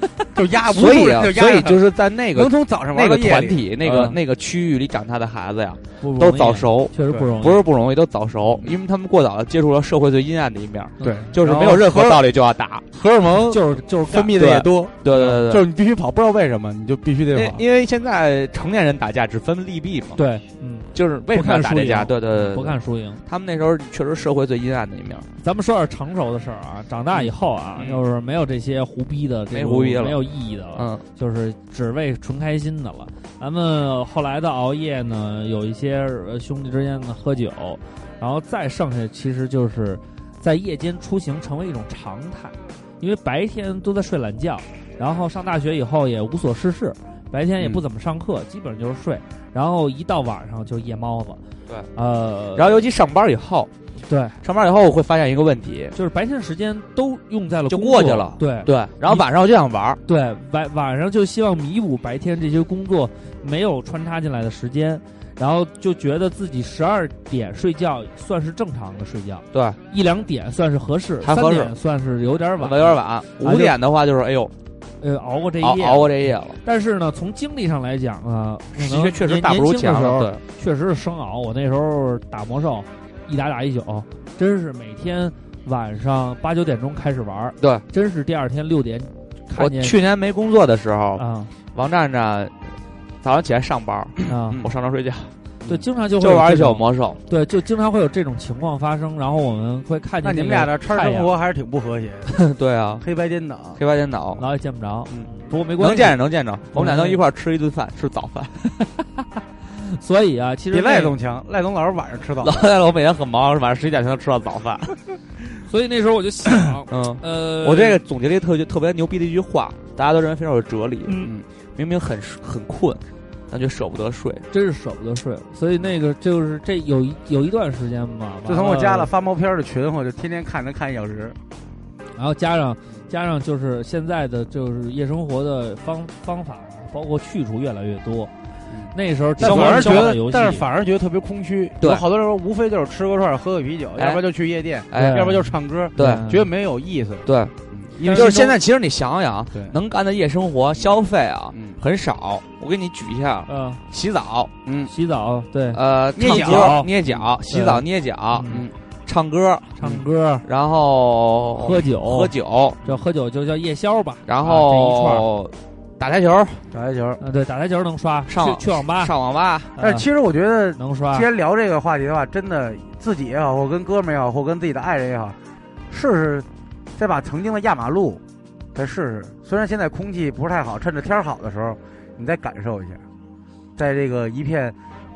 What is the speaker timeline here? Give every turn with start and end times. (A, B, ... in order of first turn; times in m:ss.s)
0:00.3-0:04.0 A
0:00.7-0:12.8 B
0:03.9-0:04.2 C
0:06.0-0:07.6 C
0:11.0-0:11.3 C
0:11.0-0:12.3 A
0:12.9-0:17.6 A
0:13.5-0:14.4 C
0:14.2-0:15.7 B
0:17.3-0:20.2 B
0:20.2-0:23.2 C
0:20.9-0:25.3 B
0:25.4-0:51.4 C
0:27.1-0:28.0 B
0:29.5-0:31.0 B
0:52.0-0:52.8 C
0:52.6-0:53.7 B
0:54.1-0:54.4 C
0:54.4-0:56.0 B
0:56.0-0:59.3 C
0:57.7-1:00.0 B
1:00.1-1:13.8 C
1:09.5-1:09.8 B
1:11.2-1:11.7 B
1:12.6-1:14.5 B
1:15.0-1:30.0 C
1:15.6-1:16.6 B
1:18.7-1:20.4 B
1:29.6-1:35.3 B
1:31.2-1:31.5 C
1:34.3-1:34.6 C
1:35.7-1:41.3 C
1:36.2-1:37.2 B
1:40.2-1:42.4 A
1:42.4-1:43.0 B
1:43.0-1:43.8 A
1:43.8-1:44.4 B
1:44.4-1:46.2 C
1:45.1-1:48.6 B
1:46.7-1:47.2 C
1:48.6-1:51.2 C
1:50.7-1:52.6 A
1:52.4-1:55.0 B
1:55.7-1:58.0 C
1:56.9-2:04.4 B
2:04.5-2:09.1 C
2:08.4-2:11.4 A
2:12.2-2:18.3 C
2:18.7-2:28.6 A
2:18.9-2:20.7 C
2:19.4-2:20.2 B
2:21.8-2:22.0 B
2:24.0-2:24.2 B
2:24.9-2:25.4 B
2:25.0-2:26.4 C
2:26.0-2:26.3 B
2:27.3-2:34.5 B
2:28.0-2:28.4 C
2:29.5-2:29.8 A
2:31.5-2:31.8 A
2:33.5-2:33.8 C
2:34.7-2:34.9 A
2:34.9-2:36.9 C
2:35.7-2:38.5 B
2:36.2-2:37.2 A
2:37.5-2:38.6 C
2:38.5-2:38.7 A
2:39.1-2:42.8 B
2:39.8-2:40.4 C
2:41.6-2:42.3 C
2:42.8-2:45.3 C
2:44.3-2:46.6 B
2:46.7-2:47.2 A
2:47.2-2:49.1 C
2:48.3-2:49.7 B
2:49.8-2:50.0 C
2:49.8-2:55.4 A
2:50.8-2:51.3 C
2:55.9-2:58.2 A
2:58.8-3:03.0 A
3:03.8-3:04.8 A